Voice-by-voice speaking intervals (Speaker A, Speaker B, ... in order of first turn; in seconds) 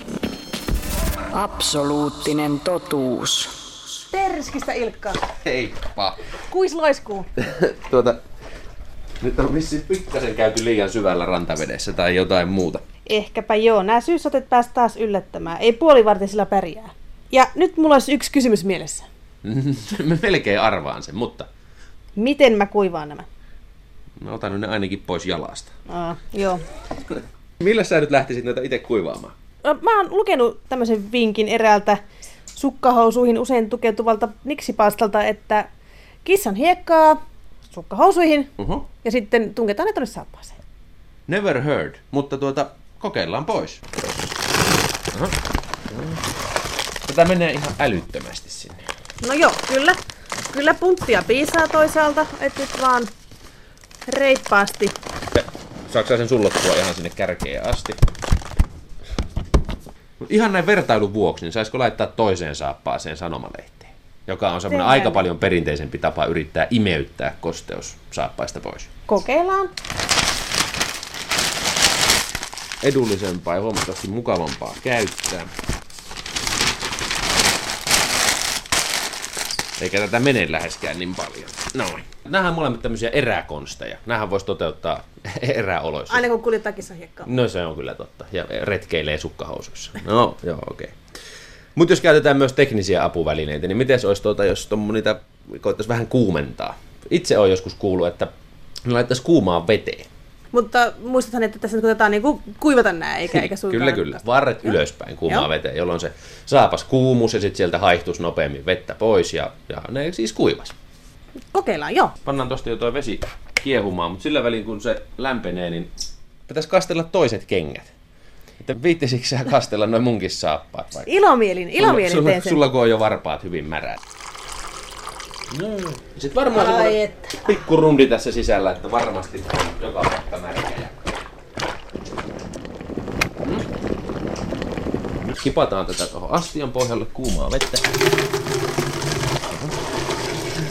Speaker A: 1.3-3.5
Speaker B: 4.1-5.2, 6.5-7.3, 13.1-19.1, 22.1-23.3, 25.9-26.6, 29.6-32.0, 32.5-35.7, 36.2-40.6, 49.2-53.1, 54.0-54.9, 64.7-65.3, 69.1-69.7, 86.1-87.3, 100.5-105.5, 111.5-112.1, 121.0-122.6, 126.5-127.4
Speaker C: 5.4-6.2, 7.4-8.2, 9.2-12.8, 19.4-21.5, 24.2-25.7, 27.6-29.3, 38.6-38.8, 41.3-44.0, 45.9-46.2, 47.1-48.8, 55.3-58.0, 60.2-68.9, 72.8-75.5, 79.8-86.2, 87.2-91.0, 91.8-98.3, 98.8-100.1, 103.3-110.7, 112.2-115.9, 116.5-117.9, 118.6-121.1, 121.8-124.0, 125.5-131.2, 135.3-137.9, 139.5-139.8